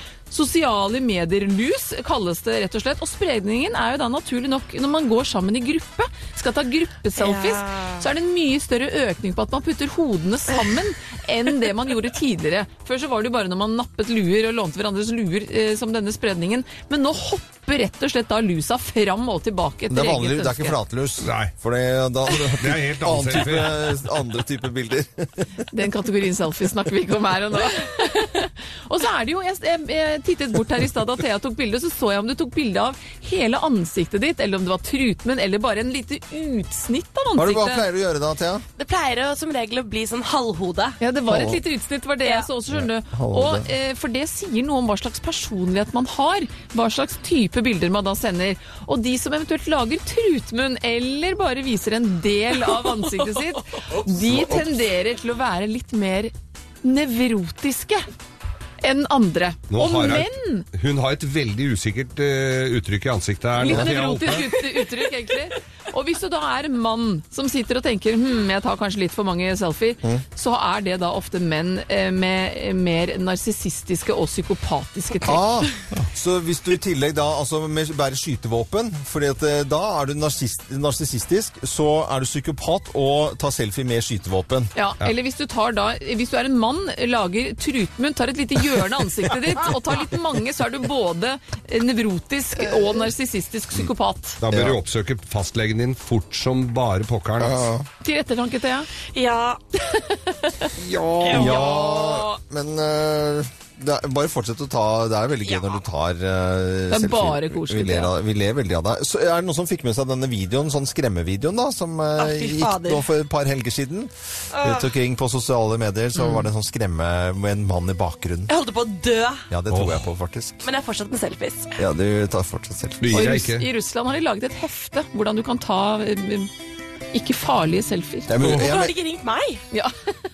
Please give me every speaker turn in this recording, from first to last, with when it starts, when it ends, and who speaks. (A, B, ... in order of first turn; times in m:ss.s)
0:00.3-0:20.8 A
0:07.2-0:08.0 B
0:19.9-0:25.3 C
0:21.2-0:21.5 D
0:22.5-0:24.0 D
0:25.7-0:37.8 A
0:37.4-0:38.6 C
0:38.8-0:41.0 B
0:41.0-0:58.1 A
0:41.3-0:41.6 C
0:42.7-0:43.7 C
0:58.8-1:00.7 A
0:59.7-1:04.5 D
1:03.6-1:15.4 A
1:15.2-1:24.7 C
1:24.8-1:34.4 A
1:34.4-1:37.7 D
1:34.5-1:34.8 C
1:37.4-1:37.9 C
1:38.0-1:38.9 A
1:39.0-1:39.6 B
1:40.8-1:41.7 D
1:41.2-1:41.5 B
1:41.3-1:42.4 A
1:41.3-1:58.5 C
1:46.9-1:48.1 A
1:52.2-1:53.1 B
1:54.5-1:54.9 B
1:58.5-1:59.4 B
1:59.5-2:00.6 C
1:59.7-2:00.0 D
2:00.6-2:01.8 B
2:01.8-2:03.2 C
2:03.0-2:03.7 D
2:03.1-2:06.5 A
2:07.1-2:08.3 A
2:08.3-2:09.0 C
2:08.4-2:08.7 D
2:08.5-2:09.6 B